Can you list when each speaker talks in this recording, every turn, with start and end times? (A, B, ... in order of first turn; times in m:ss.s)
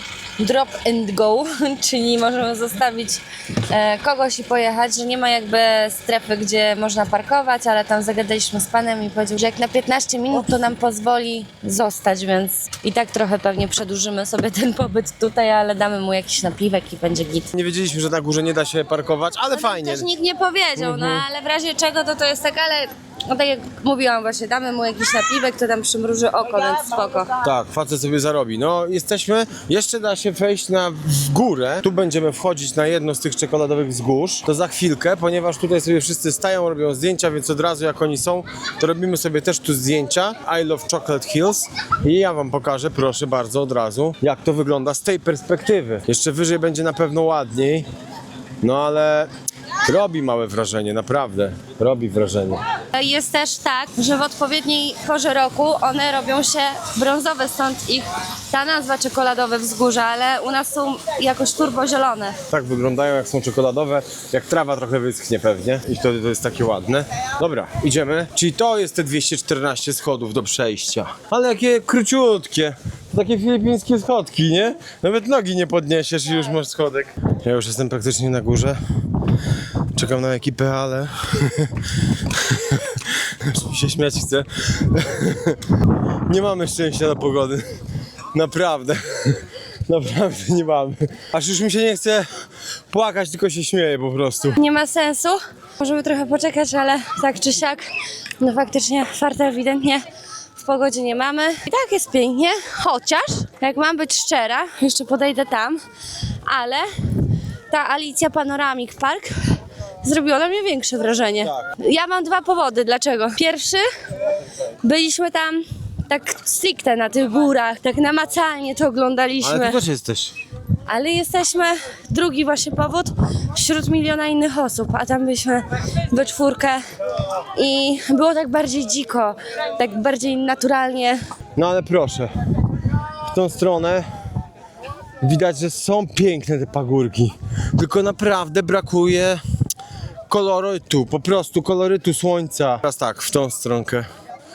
0:00.4-0:17.5 A
0:17.5-0:20.1 B
0:19.5-0:27.3 A
0:20.8-0:21.3 B
0:27.4-0:47.9 B
0:48.6-0:49.3 B
0:49.8-0:52.6 B
0:52.9-1:02.4 A
1:02.5-1:18.8 B
1:19.9-1:27.7 B
1:28.3-1:32.3 B
1:32.9-1:34.6 B
1:34.6-1:37.9 A
1:38.4-1:40.0 A
1:40.6-1:45.8 A
1:46.5-1:46.9 A
1:47.7-1:53.8 A
1:51.4-1:51.7 B
1:54.8-1:59.8 A
1:59.4-2:00.4 B
2:00.9-2:06.8 A
2:07.5-2:11.2 A
2:11.6-2:12.3 B
2:13.2-2:14.1 B
2:15.2-2:19.4 B
2:20.3-2:24.1 B